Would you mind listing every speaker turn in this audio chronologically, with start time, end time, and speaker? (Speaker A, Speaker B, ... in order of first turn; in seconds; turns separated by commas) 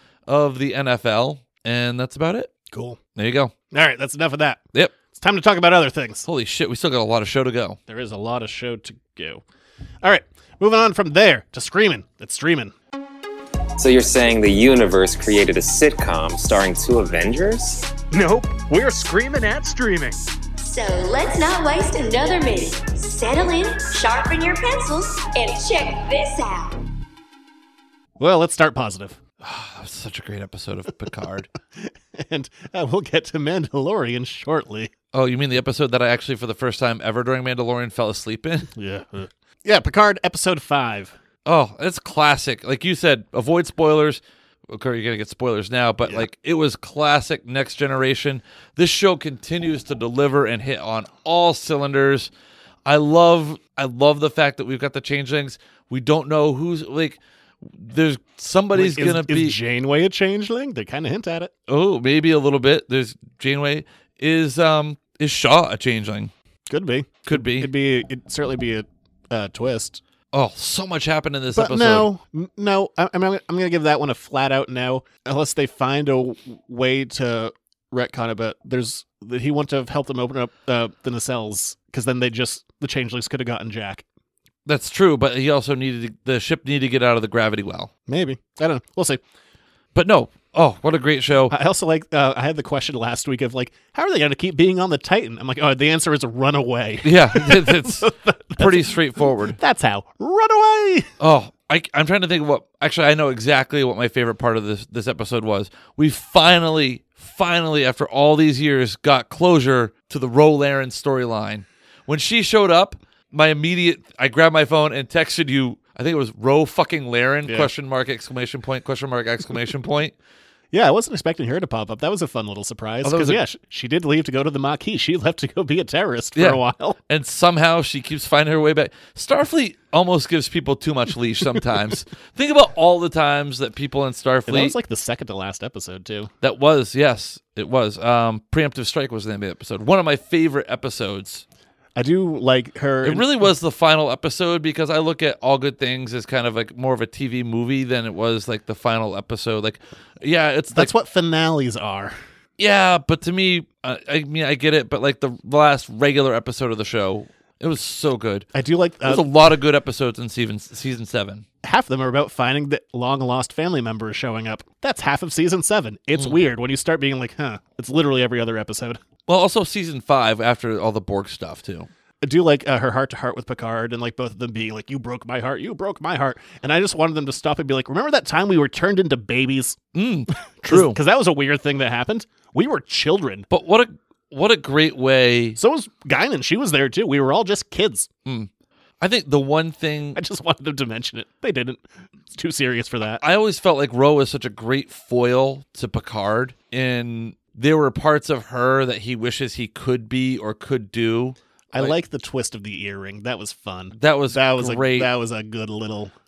Speaker A: 0.3-2.5, Speaker B: 2.7-3.0, Speaker A: 3.2-3.5, Speaker B: 3.7-4.6, Speaker B: 5.1-6.3, Speaker A: 6.2-7.8, Speaker B: 7.9-9.4, Speaker B: 10.0-12.7, Speaker C: 13.8-17.9, Speaker D: 18.1-20.2, Speaker E: 20.6-26.8, Speaker B: 28.2-29.2, Speaker A: 29.4-31.5, Speaker B: 31.8-34.9, Speaker A: 35.1-38.7, Speaker B: 38.7-41.1, Speaker A: 41.5-52.3, Speaker A: 52.9-59.6, Speaker B: 58.8-61.5, Speaker A: 61.7-66.3, Speaker B: 66.7-70.0, Speaker A: 67.3-67.7, Speaker A: 70.3-72.1, Speaker B: 71.5-84.0, Speaker A: 84.7-87.9, Speaker B: 88.1-89.2, Speaker A: 89.9-91.5, Speaker B: 91.5-101.1, Speaker A: 97.0-99.6, Speaker A: 101.2-120.1, Speaker B: 117.5-117.7, Speaker B: 120.7-127.0, Speaker A: 123.0-123.4, Speaker A: 126.3-134.8, Speaker B: 134.5-136.3, Speaker A: 136.4-141.4, Speaker B: 142.0-143.4, Speaker A: 143.0-150.9, Speaker B: 150.7-152.2, Speaker A: 152.6-158.5, Speaker B: 158.5-159.3, Speaker A: 159.0-161.4, Speaker B: 161.6-169.0, Speaker A: 169.3-171.9, Speaker B: 172.2-179.8, Speaker A: 179.9-181.0, Speaker B: 180.6-183.5, Speaker A: 183.5-185.6, Speaker B: 185.6-188.1, Speaker A: 188.2-188.5, Speaker A: 189.0-190.2, Speaker B: 190.2-193.2, Speaker A: 193.2-202.0, Speaker B: 201.7-206.1, Speaker A: 203.9-205.1